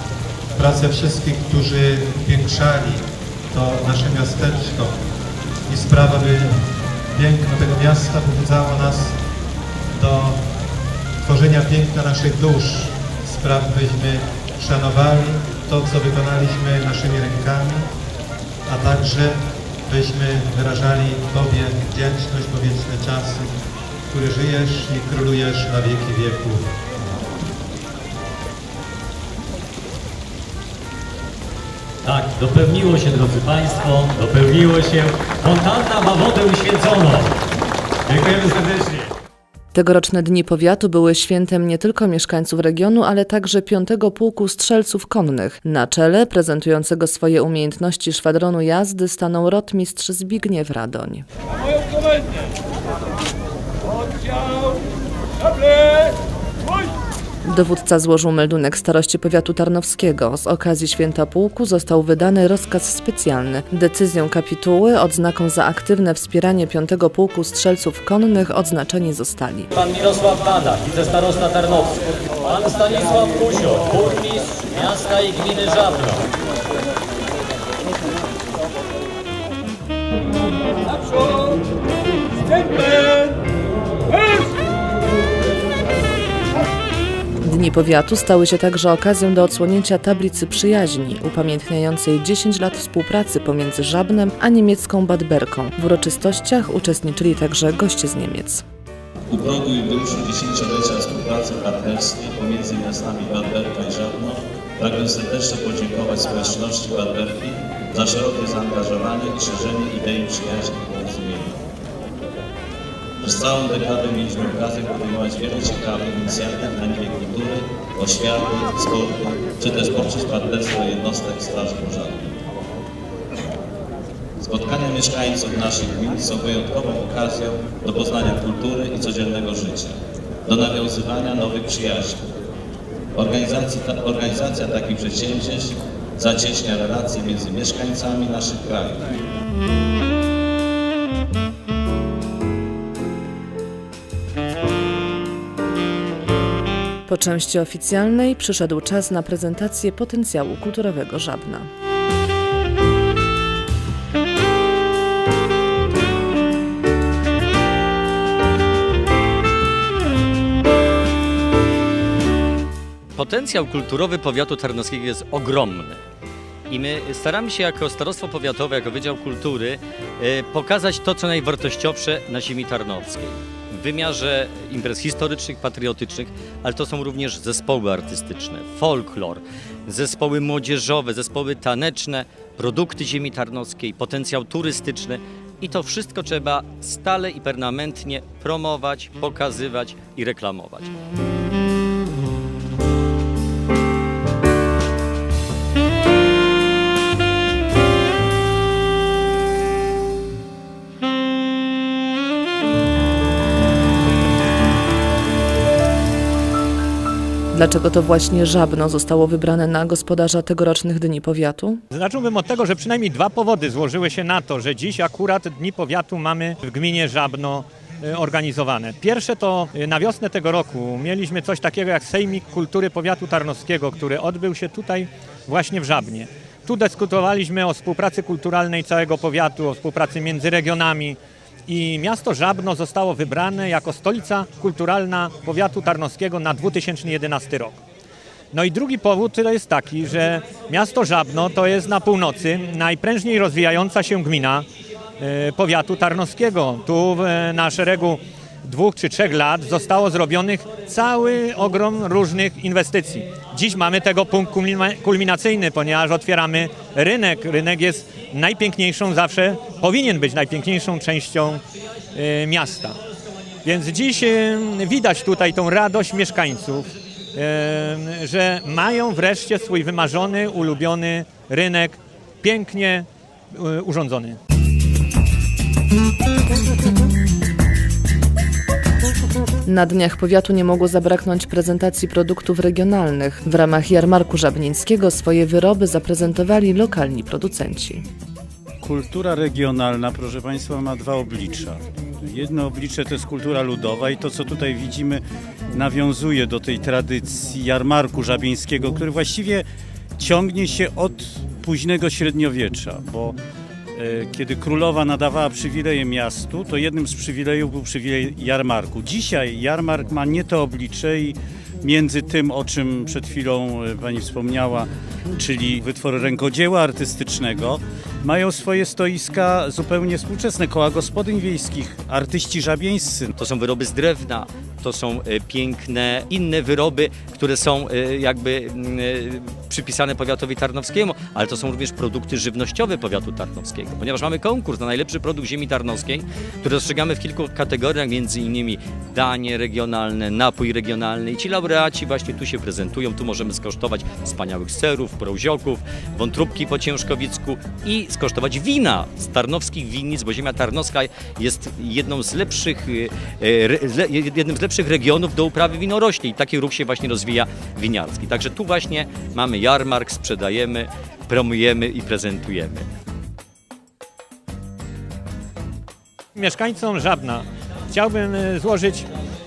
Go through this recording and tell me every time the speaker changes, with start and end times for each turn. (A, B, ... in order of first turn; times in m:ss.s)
0:00.6-0:05.0 A
0:05.7-0:06.6 A
0:07.1-0:09.2 A
0:09.9-0:10.4 A
0:11.2-0:17.9 A
0:18.6-0:23.5 A
0:24.1-0:26.7 A
0:32.0-0:37.4 B
0:38.0-0:39.1 B
0:39.7-0:51.2 C
0:57.4-1:09.7 C
1:09.7-1:16.3 B
1:27.4-1:38.6 C
1:39.3-1:51.6 D
1:53.2-2:02.3 D
2:04.4-2:12.2 D
2:13.1-2:19.1 D
2:27.0-2:31.7 C
2:43.1-2:46.0 B
2:46.7-3:10.9 B
3:27.5-3:31.8 C
3:31.9-3:57.8 E
3:58.5-4:04.6 E
4:05.2-4:21.6 E
4:22.1-4:23.0 E
4:23.6-4:34.4 E
4:39.6-4:48.0 C
4:48.8-4:59.7 F
5:00.2-5:03.4 F
5:04.0-5:23.3 F
5:23.4-6:02.9 B
6:06.4-6:09.1 E